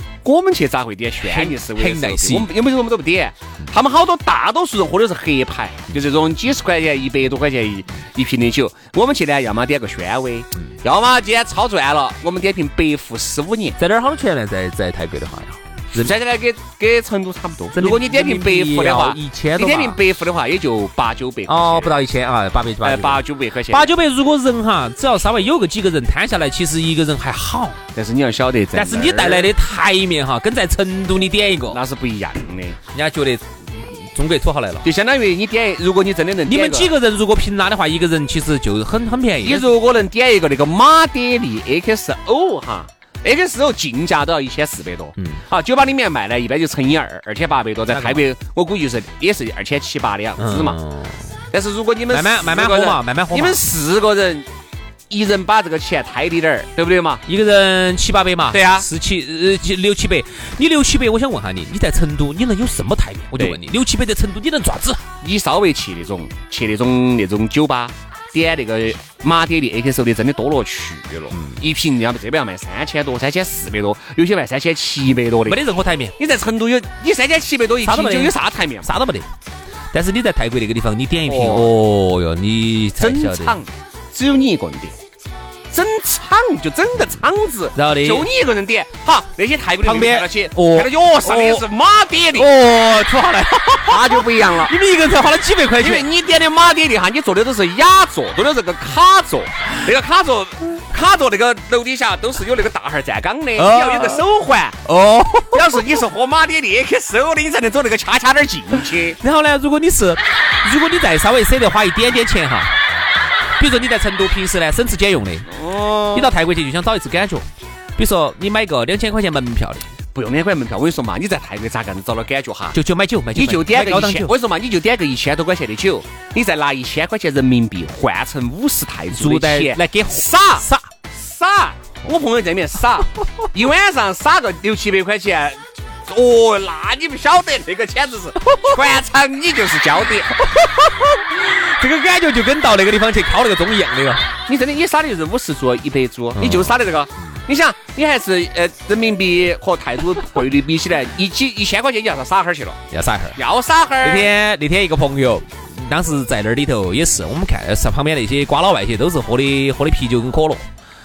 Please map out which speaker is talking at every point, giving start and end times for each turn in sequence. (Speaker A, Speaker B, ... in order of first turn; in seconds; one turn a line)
Speaker A: 0.2-13.8
Speaker B: 1.2-2.5
Speaker B: 13.8-16.1
Speaker A: 15.9-22.0
Speaker B: 17.7-20.0
Speaker B: 21.5-27.8
Speaker A: 22.8-23.9
Speaker A: 27.9-29.5
Speaker B: 28.7-31.8
Speaker A: 31.7-32.8
Speaker B: 32.9-34.9
Speaker A: 34.8-36.9
Speaker B: 36.5-39.7
Speaker A: 39.4-50.8
Speaker B: 47.9-48.3
Speaker B: 50.4-51.4
Speaker A: 51.5-54.5
Speaker B: 52.1-53.6
Speaker A: 55.1-57.2
Speaker B: 57.2-65.0
Speaker A: 58.5-58.9
Speaker A: 65.2-75.6
Speaker B: 71.3-71.6
Speaker B: 75.5-76.2
Speaker A: 76.2-78.9
Speaker B: 77.8-79.3
Speaker B: 79.9-83.6
Speaker A: 81.2-81.8
Speaker A: 83.0-85.0
Speaker A: 85.7-92.5
Speaker B: 87.8-88.3
Speaker B: 89.8-91.7
Speaker B: 92.3-96.1
Speaker A: 93.9-94.7
Speaker A: 95.8-104.8
Speaker B: 103.6-104.2
Speaker B: 104.9-106.0
Speaker A: 105.5-109.2
Speaker B: 109.2-112.7
Speaker B: 113.6-115.5
Speaker A: 115.5-116.3
Speaker B: 116.1-117.5
Speaker B: 118.0-119.9
Speaker A: 120.1-122.8
Speaker B: 122.7-124.4
Speaker A: 123.3-140.3
Speaker B: 129.1-130.9
Speaker B: 138.4-138.7
Speaker B: 140.3-144.3
Speaker A: 144.5-152.8
Speaker B: 146.4-146.9
Speaker B: 152.9-153.4
Speaker A: 153.4-154.3
Speaker B: 154.0-160.6